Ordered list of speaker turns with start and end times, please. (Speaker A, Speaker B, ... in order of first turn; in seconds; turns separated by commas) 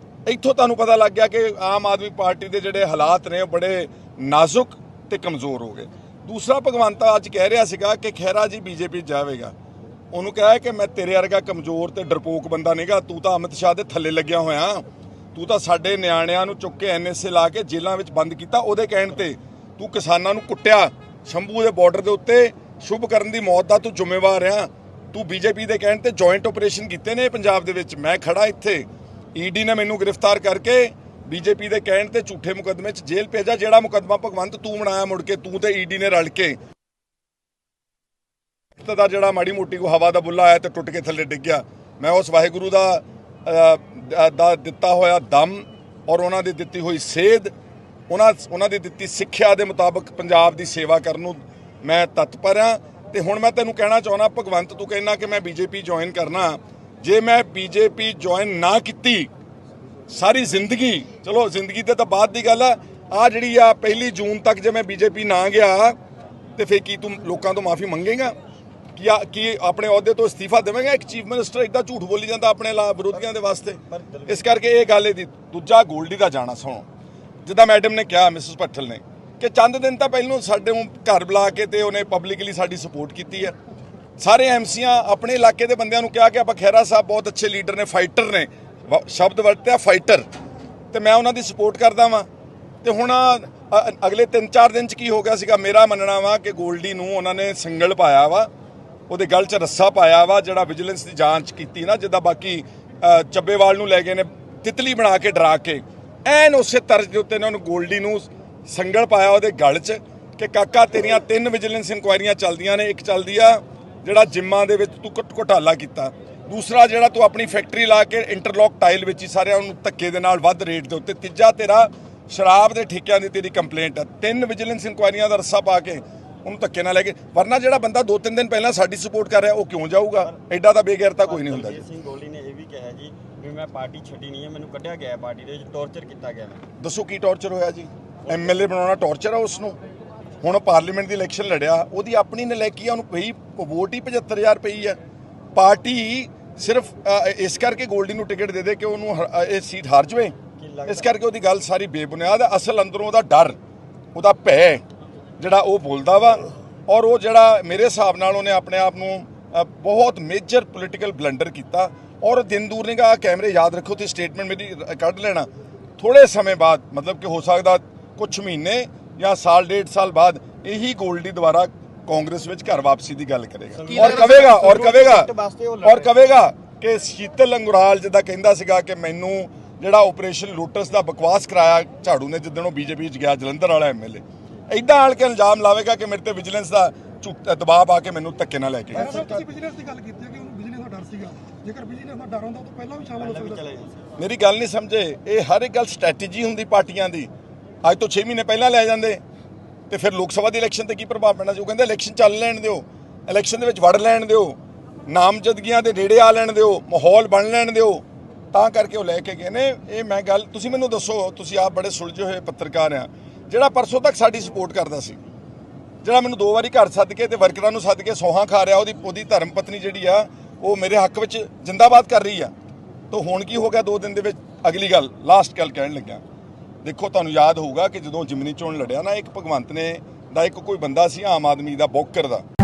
Speaker A: 0.2-9.5, Speaker A: 10.1-36.6, Speaker A: 38.8-47.5, Speaker A: 48.1-59.3, Speaker A: 60.1-66.0, Speaker A: 66.6-68.3, Speaker A: 69.0-76.8, Speaker B: 73.8-74.6, Speaker A: 77.5-83.5, Speaker A: 84.2-90.2, Speaker A: 90.9-92.3, Speaker A: 92.8-98.5, Speaker A: 99.1-131.9, Speaker B: 131.2-136.6, Speaker A: 136.8-139.8, Speaker B: 138.3-138.7, Speaker A: 140.4-145.0, Speaker A: 145.6-150.3, Speaker B: 150.6-151.2, Speaker A: 150.9-153.6, Speaker A: 154.2-154.8, Speaker A: 155.4-175.3, Speaker B: 173.7-176.2, Speaker A: 175.8-189.3, Speaker C: 189.0-193.6, Speaker B: 189.1-189.4, Speaker B: 193.2-194.1, Speaker A: 194.2-197.3, Speaker A: 197.8-199.2, Speaker A: 199.9-215.2, Speaker A: 216.0-222.5, Speaker A: 223.1-226.2, Speaker A: 226.8-232.4